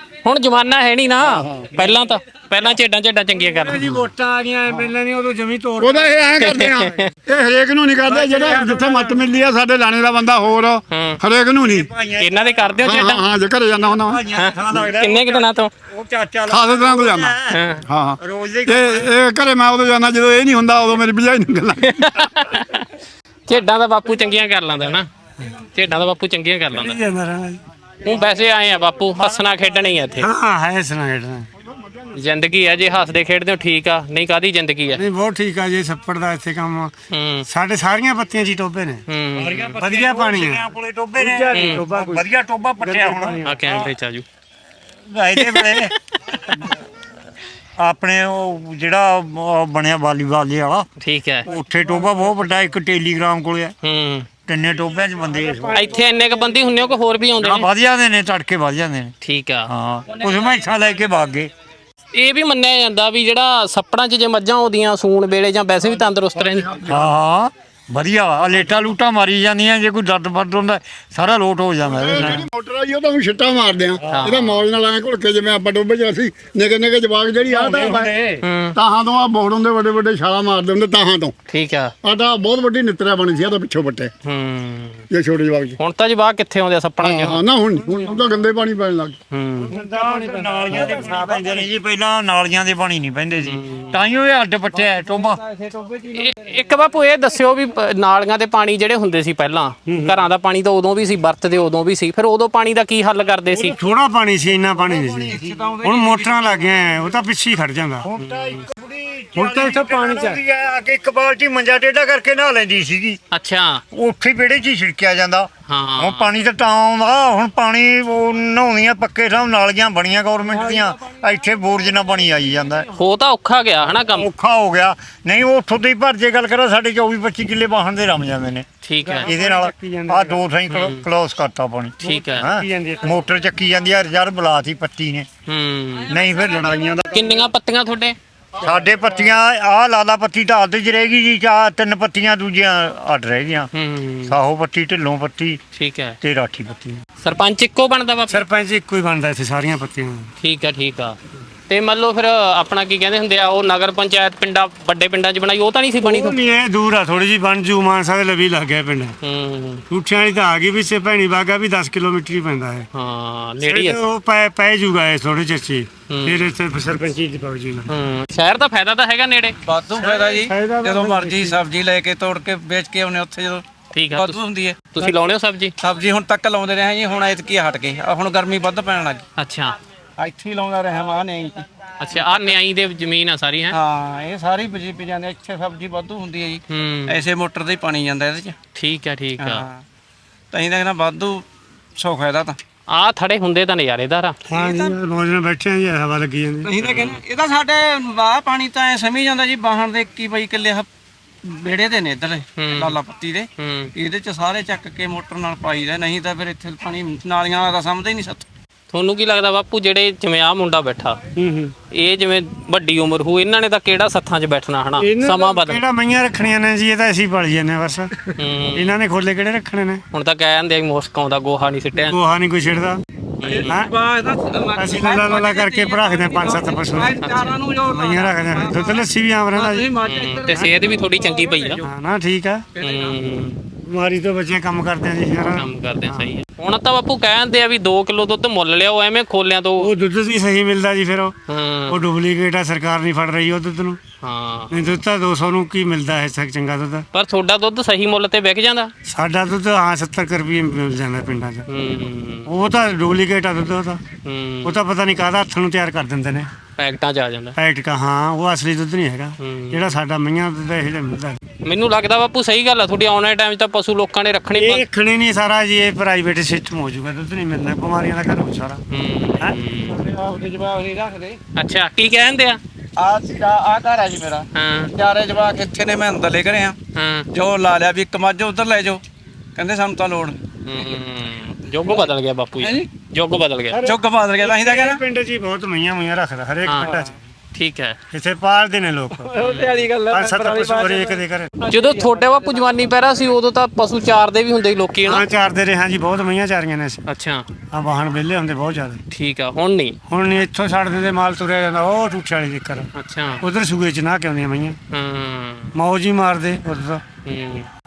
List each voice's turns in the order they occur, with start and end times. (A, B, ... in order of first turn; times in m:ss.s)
0:00.2-0:04.0 A
0:01.2-0:01.7 B
0:03.3-0:06.7 C
0:05.8-0:11.9 B
0:06.4-0:07.1 A
0:08.0-0:09.2 C
0:10.9-0:11.2 A
0:11.6-0:12.7 D
0:12.2-0:13.2 A
0:12.7-0:14.9 B
0:13.7-0:17.6 D
0:14.3-0:15.7 A
0:16.5-0:22.2 B
0:17.5-0:17.8 A
0:18.2-0:19.1 D
0:21.8-0:22.9 A
0:23.5-0:27.0 A
0:26.7-0:27.6 C
0:28.0-0:30.3 A
0:30.2-0:31.5 C
0:31.7-0:32.1 B
0:32.1-0:35.0 A
0:34.9-0:36.9 C
0:37.1-0:37.5 A
0:37.4-0:39.0 C
0:39.1-0:39.8 A
0:39.4-0:43.9 D
0:39.7-0:40.7 C
0:41.2-0:42.2 C
0:41.5-0:41.8 A
0:42.8-0:43.6 C
0:43.4-0:44.2 A
0:45.0-0:45.9 D
0:45.3-0:46.4 A
0:46.5-0:46.8 D
0:47.8-0:50.9 D
0:51.0-0:51.5 A
0:51.5-0:53.7 D
0:53.8-0:54.3 A
0:54.5-0:55.8 D
0:55.3-0:57.0 E
0:55.7-0:57.7 A
0:57.4-0:59.1 D
0:59.2-0:59.7 A
0:59.7-1:01.5 D
1:02.1-1:06.8 A
1:06.4-1:07.1 B
1:06.9-1:12.2 D
1:11.8-1:18.1 B
1:12.1-1:12.4 C
1:14.1-1:14.6 A
1:17.5-1:18.4 E
1:18.4-1:18.8 A
1:18.7-1:21.3 B
1:21.5-1:21.9 A
1:22.0-1:24.1 B
1:24.2-1:25.0 A
1:25.1-1:25.8 B
1:25.8-1:27.4 A
1:27.0-1:29.2 B
1:27.8-1:28.2 C
1:29.3-1:29.8 A
1:29.6-1:31.7 C
1:30.0-1:35.4 D
1:30.7-1:31.1 E
1:33.4-1:34.0 A
1:34.8-1:36.5 E
1:36.1-1:43.8 A
1:39.8-1:40.2 C
1:43.5-1:48.1 C
1:44.7-1:45.5 D
1:45.3-1:46.9 E
1:48.0-1:53.2 D
1:48.2-1:48.6 A
1:49.3-1:50.4 C
1:53.3-1:53.8 A
1:53.9-2:02.9 D
1:55.7-1:56.3 A
2:02.9-2:04.3 A
2:04.1-2:08.6 D
2:08.8-2:09.3 A
2:09.0-2:10.4 C
2:09.2-2:15.3 D
2:10.7-2:11.0 A
2:12.0-2:12.5 A
2:12.0-2:13.2 C
2:15.5-2:16.1 A
2:16.1-2:17.2 D
2:17.1-2:18.2 A
2:18.6-2:23.7 D
2:23.7-2:24.4 A
2:24.3-2:25.6 D
2:25.7-2:26.2 A
2:26.2-2:27.0 D
2:27.2-2:28.4 A
2:28.3-2:30.3 C
2:30.4-2:31.2 A
2:31.7-2:36.4 A
2:36.0-2:39.2 C
2:39.2-2:39.8 A
2:39.9-2:42.9 C
2:42.9-2:44.0 A
2:43.6-2:47.9 C
2:46.1-2:46.5 A
2:47.9-2:49.5 A
2:49.6-2:53.6 E
2:50.0-2:51.6 C
2:53.9-2:54.4 A
2:54.1-2:54.8 E
2:54.9-2:55.7 A
2:55.8-2:59.2 E
2:59.4-2:59.8 A
3:00.2-3:02.6 E
3:02.0-3:03.8 A
3:03.7-3:08.6 E
3:06.7-3:07.2 A
3:08.7-3:09.6 A
3:09.4-3:09.8 E
3:10.5-3:11.4 E
3:12.0-3:12.6 E
3:12.9-3:14.4 A
3:14.5-3:16.7 C
3:14.5-3:14.9 E
3:16.6-3:20.8 E
3:16.8-3:17.2 A
3:21.4-3:28.4 E
3:22.6-3:23.0 A
3:23.6-3:23.9 A
3:28.9-3:31.2 A
3:31.4-3:31.7 C
3:31.9-3:35.8 A
3:35.0-3:40.0 C
3:38.4-3:39.0 A
3:40.1-3:42.2 A
3:42.0-3:43.0 C
3:43.4-3:43.8 A
3:43.4-3:51.8 E
3:43.7-3:43.9 C
3:44.8-3:47.2 C
3:47.2-3:47.5 A
3:47.8-3:49.9 C
3:50.0-3:51.8 A
3:51.8-3:52.6 C
3:52.8-3:53.2 E
3:52.8-3:53.6 A
3:53.8-3:56.3 C
3:55.6-3:59.9 A
3:59.8-4:01.3 C
4:01.5-4:02.0 A
4:01.9-4:04.0 C
4:04.2-4:04.8 A
4:04.7-4:07.0 C
4:07.1-4:08.9 A
4:09.0-4:11.7 C
4:11.7-4:12.5 A
4:12.4-4:14.0 C
4:14.2-4:14.7 A
4:14.6-4:16.5 C
4:16.8-4:17.6 A
4:17.6-4:21.4 C
4:19.4-4:19.8 A
4:21.6-4:24.8 A
4:24.5-4:28.8 C
4:28.9-4:30.0 A
4:29.9-4:31.4 E
4:31.5-4:32.6 A
4:33.0-4:36.8 E
4:34.5-4:34.9 A
4:36.9-4:37.3 A
4:37.3-4:39.0 E
4:39.6-4:41.0 E
4:40.6-4:43.8 A
4:42.6-4:42.9 E
4:43.7-4:47.2 C
4:43.8-4:45.0 E
4:46.6-4:47.0 A
4:47.5-4:48.0 A
4:48.1-4:49.4 C
4:49.1-4:52.8 E
4:49.4-4:49.8 A
4:50.1-4:51.5 C
4:51.7-4:55.2 A
4:55.0-4:57.0 C
4:57.0-4:57.4 A
4:57.7-4:59.0 C
4:59.1-5:00.0 A
5:00.1-5:02.9 C
5:02.9-5:03.4 A
5:03.4-5:04.8 C
5:04.9-5:05.7 A
5:05.7-5:07.0 C
5:07.2-5:07.7 A